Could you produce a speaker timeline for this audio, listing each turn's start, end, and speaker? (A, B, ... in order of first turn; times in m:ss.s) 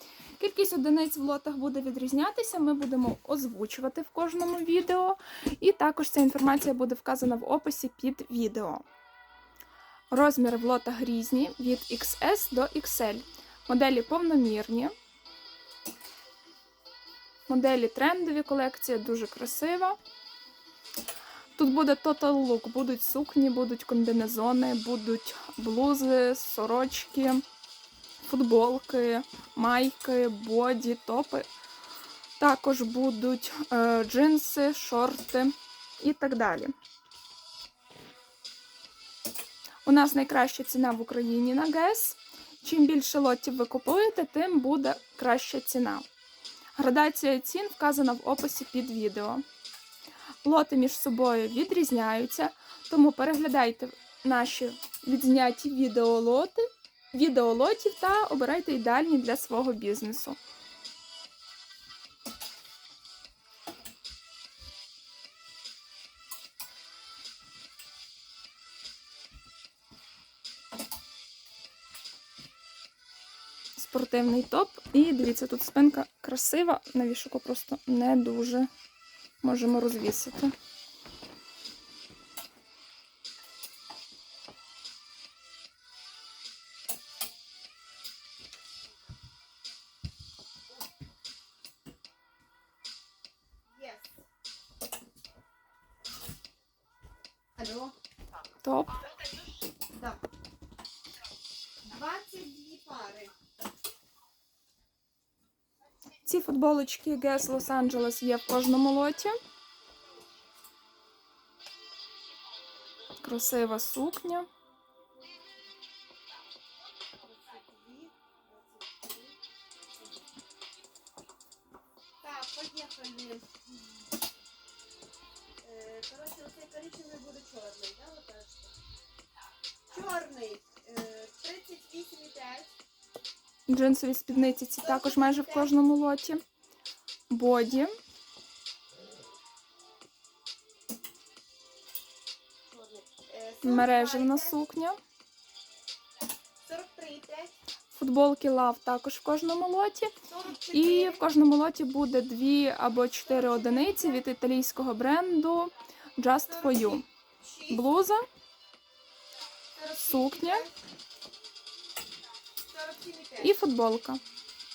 0:00.4-0:08.8 A
0:10.1-0:14.9 A
0:17.5-0:20.0 A
0:21.6-0:27.4 A
0:28.2-0:31.5 A
0:32.4-0:36.7 A
0:39.8-0:46.0 A
0:46.8-0:49.4 A
0:50.4-1:00.4 A
1:13.8-1:18.7 A
1:19.4-1:20.5 A
1:33.7-1:34.2 B
1:37.6-1:37.9 B
1:38.6-1:39.0 A
1:39.9-1:40.2 B
1:41.9-1:43.3 B
1:46.2-1:49.3 A
1:53.2-1:54.5 A
1:57.2-1:59.4 B
2:02.2-2:03.5 B
2:05.6-2:08.7 B
2:09.9-2:12.8 B
2:13.7-2:16.4 A
2:14.8-2:15.7 B
2:17.3-2:18.0 A
2:22.7-2:24.6 B
2:23.6-2:25.0 A
2:26.6-2:27.6 B
2:27.9-2:30.2 A
2:30.3-2:31.2 B
2:30.7-2:37.0 A
2:33.2-2:34.3 B
2:36.4-2:37.9 B
2:37.7-2:38.2 A
2:39.7-2:40.8 B
2:39.9-2:40.6 A
2:42.6-2:43.6 B
2:43.4-2:44.2 A